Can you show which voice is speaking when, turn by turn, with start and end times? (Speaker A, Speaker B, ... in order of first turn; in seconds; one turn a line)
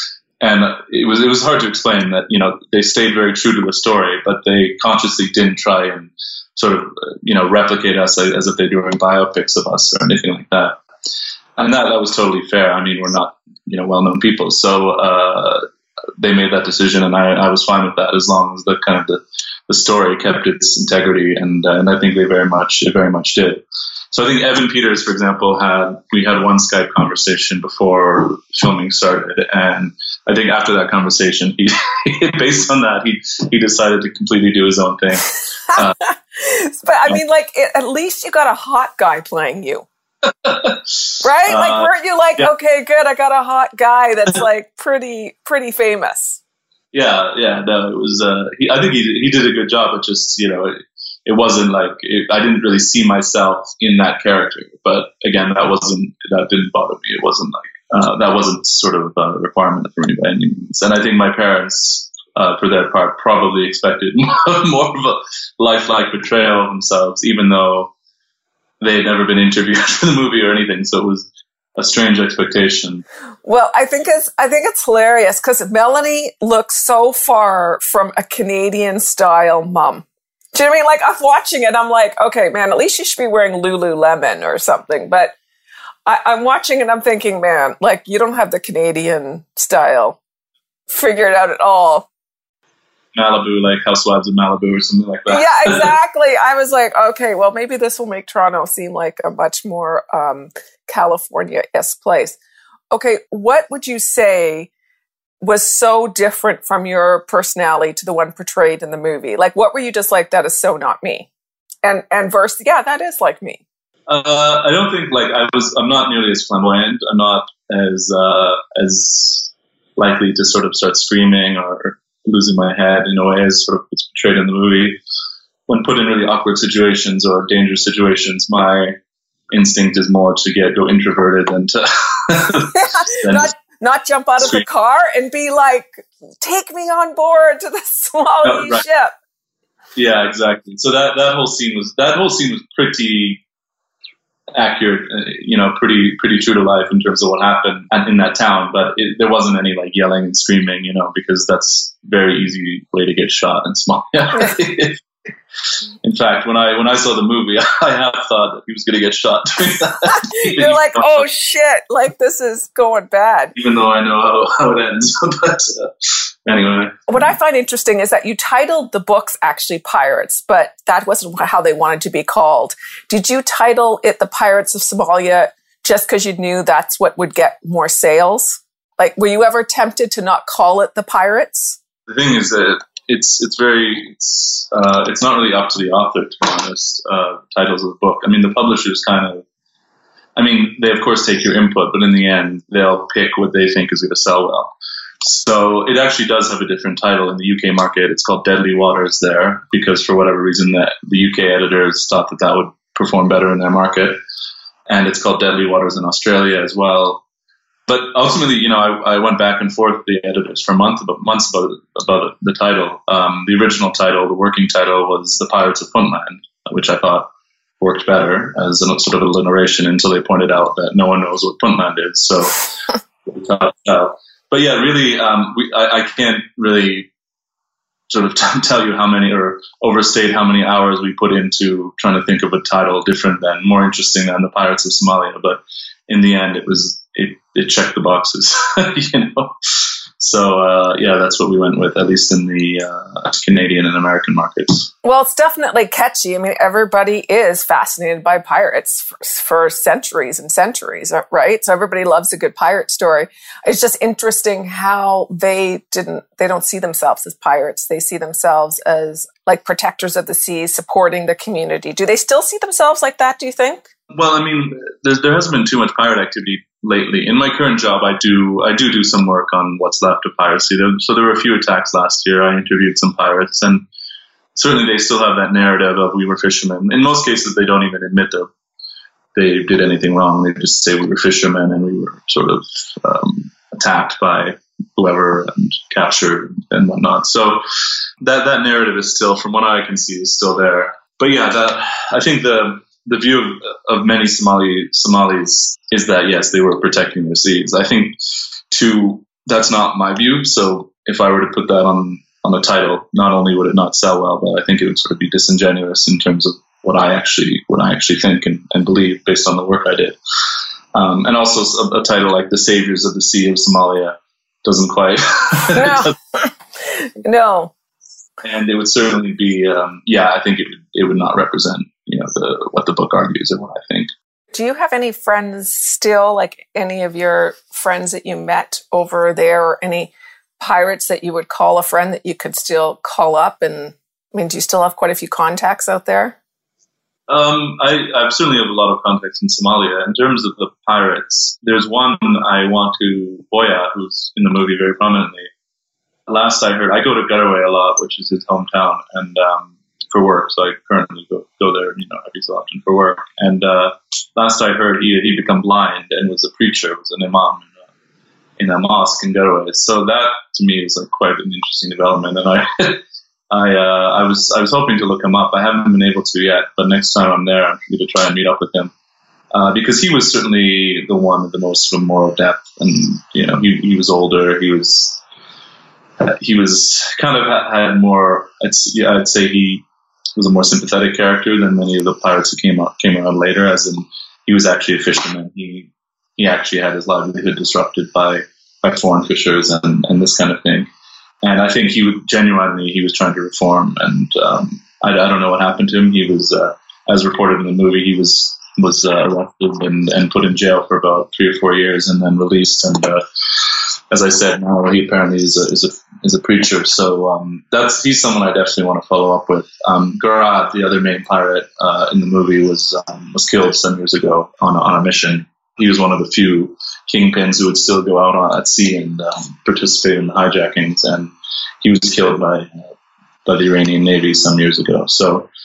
Speaker A: 0.4-10.8
Speaker A: 11.6-15.6
Speaker A: 16.2-36.0
Speaker B: 35.7-39.9
Speaker A: 40.2-42.5
Speaker B: 41.2-46.4
Speaker A: 46.9-67.9
Speaker A: 68.8-73.0
Speaker B: 73.4-85.3
Speaker B: 86.1-90.2
Speaker B: 90.9-92.1
Speaker A: 93.2-95.9
Speaker B: 95.3-102.4
Speaker B: 102.9-104.7
Speaker B: 105.4-111.3
Speaker B: 111.8-113.6
Speaker A: 114.1-125.0
Speaker A: 125.7-129.0
Speaker A: 129.5-133.5
Speaker B: 132.8-139.1
Speaker A: 138.4-138.8
Speaker A: 140.0-143.4
Speaker A: 144.6-155.0
Speaker A: 156.0-161.2
Speaker B: 160.1-163.5
Speaker A: 163.6-167.1
Speaker B: 167.1-181.8
Speaker A: 182.1-189.4
Speaker A: 190.4-204.2
Speaker A: 204.9-207.2
Speaker A: 207.9-217.3
Speaker A: 217.8-222.7
Speaker A: 223.3-227.1
Speaker A: 228.1-239.6
Speaker A: 240.2-244.9
Speaker B: 245.0-263.9
Speaker A: 264.1-273.9
Speaker A: 274.6-278.5
Speaker A: 279.4-287.6
Speaker A: 288.2-298.2
Speaker A: 298.7-310.2
Speaker A: 310.9-316.1
Speaker B: 315.8-317.7
Speaker A: 318.4-324.1
Speaker B: 324.5-336.4
Speaker A: 337.3-345.5
Speaker A: 346.3-357.7
Speaker A: 358.6-368.9
Speaker A: 369.5-375.2
Speaker A: 376.2-379.9
Speaker A: 380.4-390.9
Speaker A: 391.4-422.9
Speaker A: 423.5-425.5